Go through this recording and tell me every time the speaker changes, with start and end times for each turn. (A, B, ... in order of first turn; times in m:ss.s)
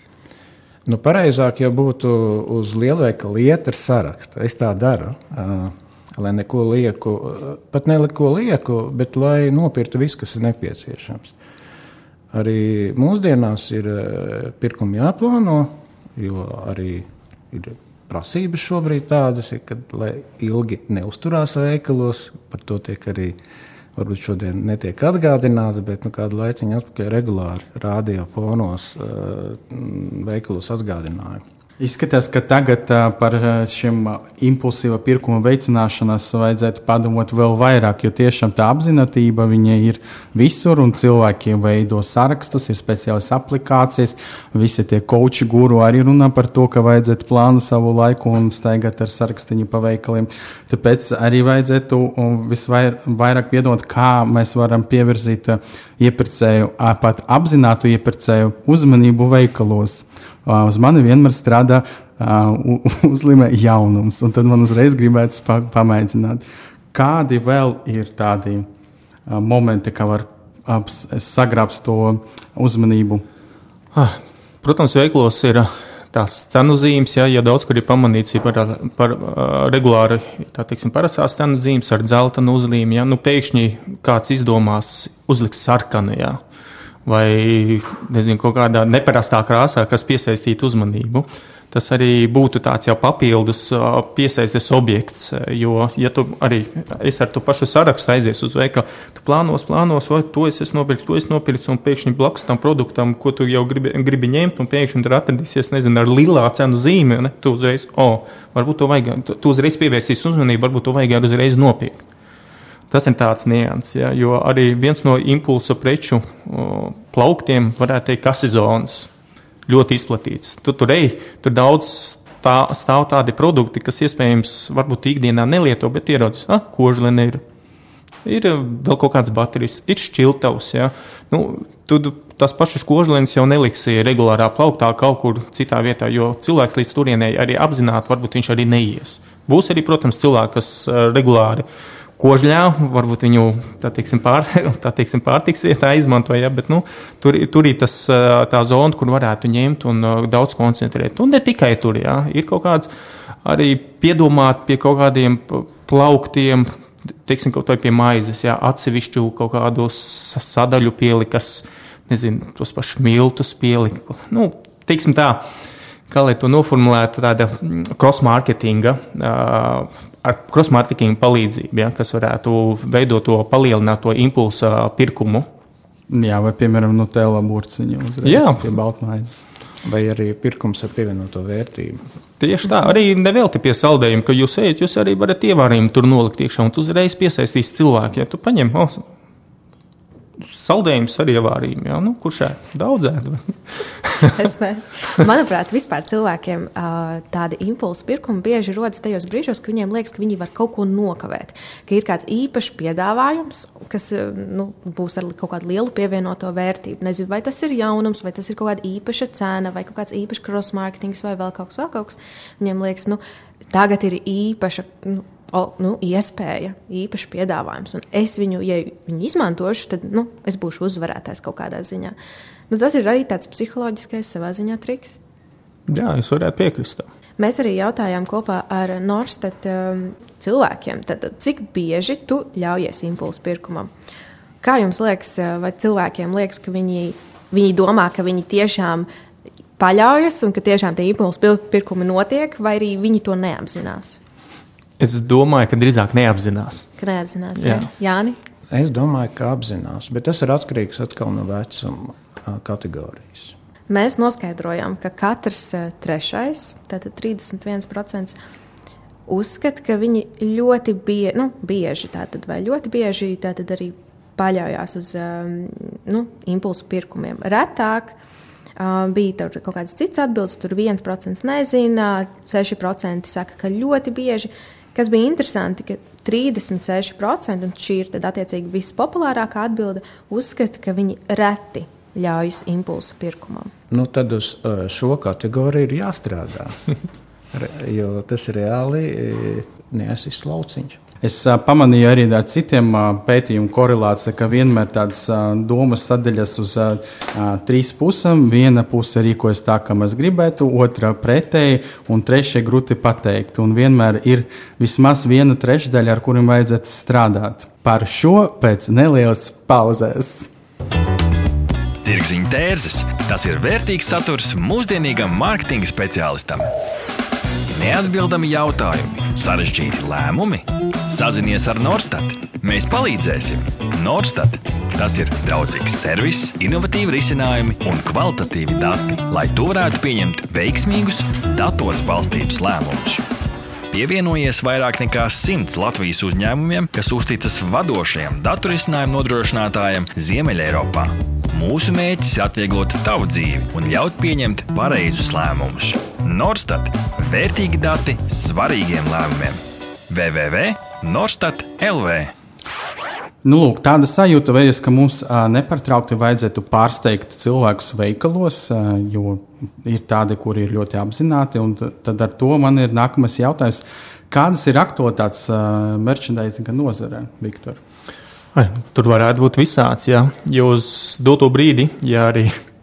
0:00.9-0:11.3 A
0:12.3-0:23.4 A
0:24.0-0:31.4 A
0:31.8-1:08.6 B
1:09.3-1:13.2 B
1:13.9-1:26.4 C
1:27.1-1:52.0 C
1:52.9-1:59.1 C
1:59.7-2:07.4 C
2:08.2-2:21.6 C
2:22.2-2:32.9 C
2:33.4-2:45.5 C
2:46.1-2:55.5 C
2:56.1-2:59.4 B
2:58.2-2:58.6 C
2:59.8-3:02.0 A
3:02.4-3:09.1 C
3:10.4-3:14.3 C
3:14.2-3:42.2 D
3:42.7-3:45.2 D
3:45.9-3:47.1 C
3:47.4-3:53.9 D
3:54.6-3:59.1 D
3:59.8-4:04.2 D
4:05.0-4:06.9 C
4:07.0-4:08.4 D
4:07.6-4:07.9 C
4:08.7-4:13.5 A
4:13.9-4:18.4 D
4:19.3-4:28.2 D
4:28.8-4:43.7 D
4:43.9-4:46.8 A
4:47.5-4:51.0 A
4:51.2-5:10.5 B
5:12.0-5:16.7 E
5:17.7-5:33.2 E
5:33.9-5:52.3 E
5:53.4-6:07.8 B
6:08.5-6:12.6 C